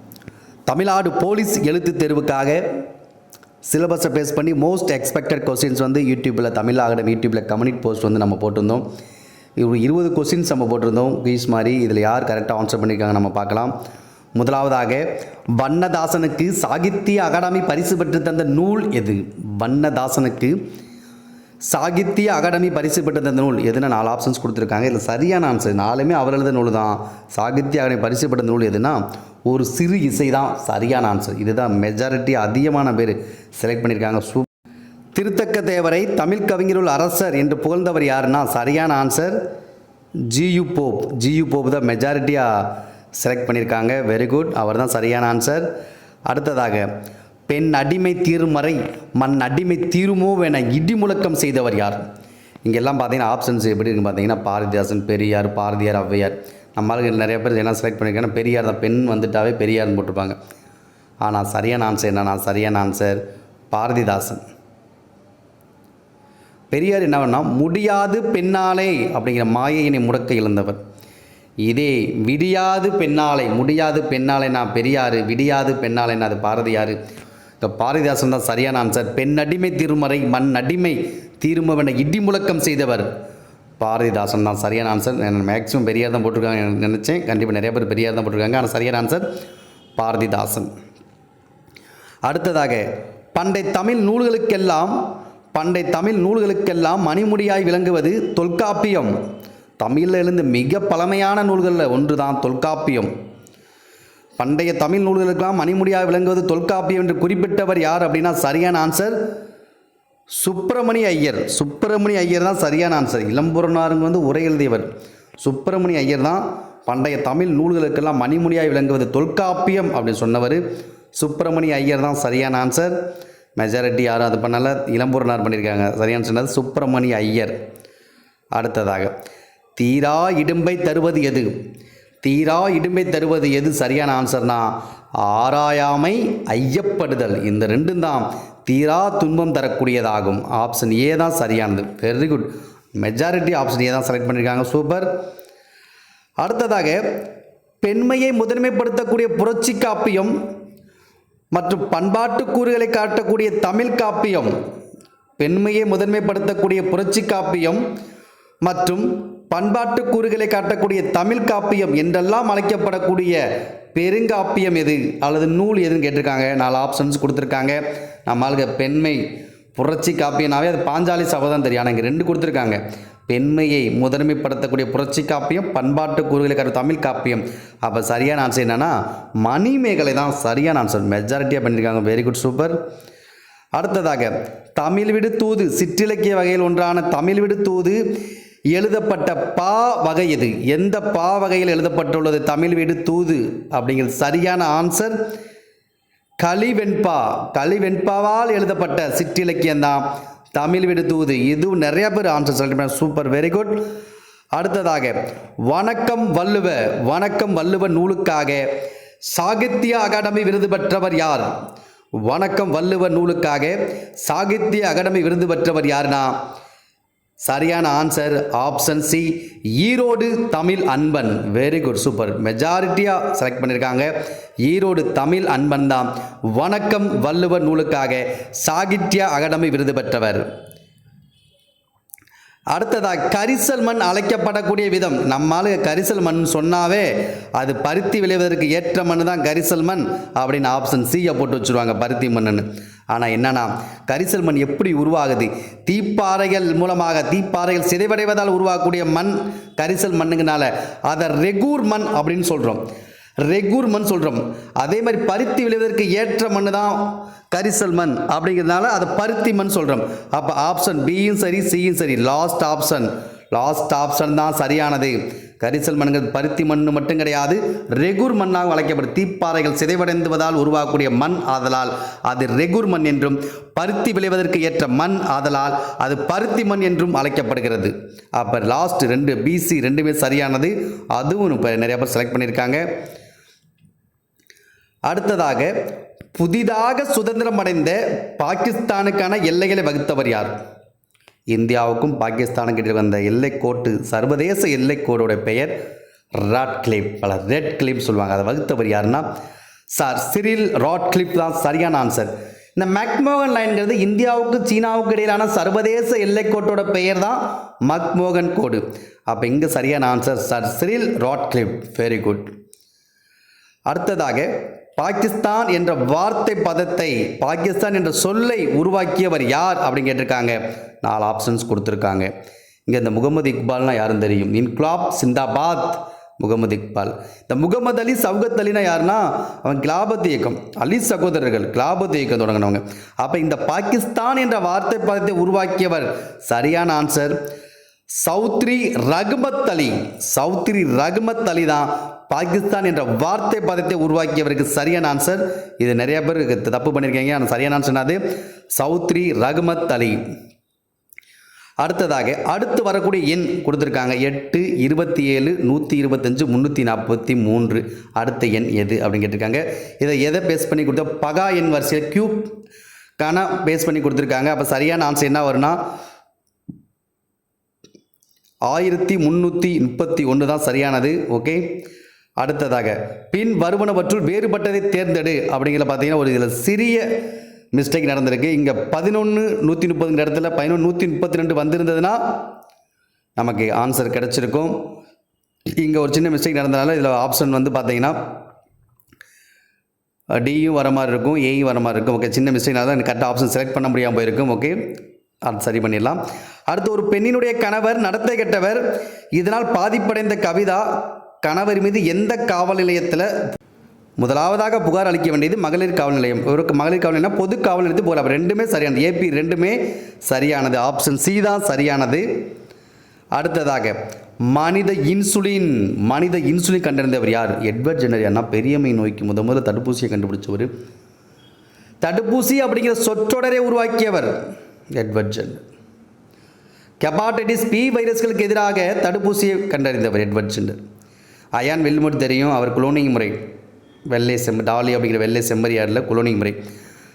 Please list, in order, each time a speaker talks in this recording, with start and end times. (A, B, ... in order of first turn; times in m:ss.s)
0:00.7-0:02.6 A
0:03.7-0:08.8 A
0:09.6-0:13.7 A
0:14.4-0:20.6 A
0:21.7-0:34.5 A
0:35.2-0:39.4 A
0:40.3-0:45.7 A
0:46.3-0:46.9 A
0:47.5-0:52.0 A
0:52.6-1:00.4 A
1:01.2-1:03.2 A
1:03.7-1:04.4 A
1:06.7-1:10.8 A
1:11.6-1:17.0 A
1:17.6-1:23.1 A
1:23.8-1:29.2 A
1:30.0-1:30.7 A
1:32.3-1:35.0 A
1:35.6-1:39.1 A
1:39.8-1:43.1 A
1:44.4-1:49.2 A
1:50.4-1:54.9 A
1:55.4-2:00.6 A
2:01.2-2:03.0 A
2:03.6-2:07.6 A
2:08.6-2:09.1 A
2:09.8-2:11.5 A
2:12.2-2:25.1 A
2:26.4-2:27.0 A
2:27.8-2:30.3 A
2:31.5-2:34.5 A
2:35.4-2:37.8 A
2:38.6-2:43.4 A
2:43.9-2:49.2 A
2:49.8-3:02.8 A
3:03.8-3:08.0 A
3:08.8-3:15.2 A
3:16.4-3:20.0 A
3:20.6-3:23.8 A
3:24.5-3:28.7 A
3:29.2-3:31.5 A
3:32.2-3:36.3 A
3:37.4-3:44.1 A
3:44.6-3:50.4 A
3:52.7-4:12.8 A
4:13.4-4:42.9 A
4:45.1-4:45.7 A
4:46.4-4:50.5 A
4:51.5-4:55.7 A
4:56.4-4:59.2 A
4:59.9-5:12.5 A
5:13.9-5:22.3 A
5:22.9-5:37.4 A
5:38.2-5:48.2 A
5:48.8-5:50.2 A
5:51.8-6:02.5 A
6:03.2-6:05.8 A
6:08.7-6:11.6 A
6:12.4-6:17.1 A
6:17.7-6:22.2 A
6:23.4-6:24.7 A
6:25.8-6:28.2 A
6:30.4-6:34.8 A
6:35.5-6:38.8 A
6:39.4-6:40.9 A
6:41.4-6:43.3 A
6:44.2-6:52.3 A
6:53.4-6:54.0 A
6:54.5-7:00.7 A
7:02.0-7:04.3 A
7:05.0-7:05.6 A
7:07.0-7:10.8 A
7:11.6-7:13.4 A
7:14.1-7:16.6 A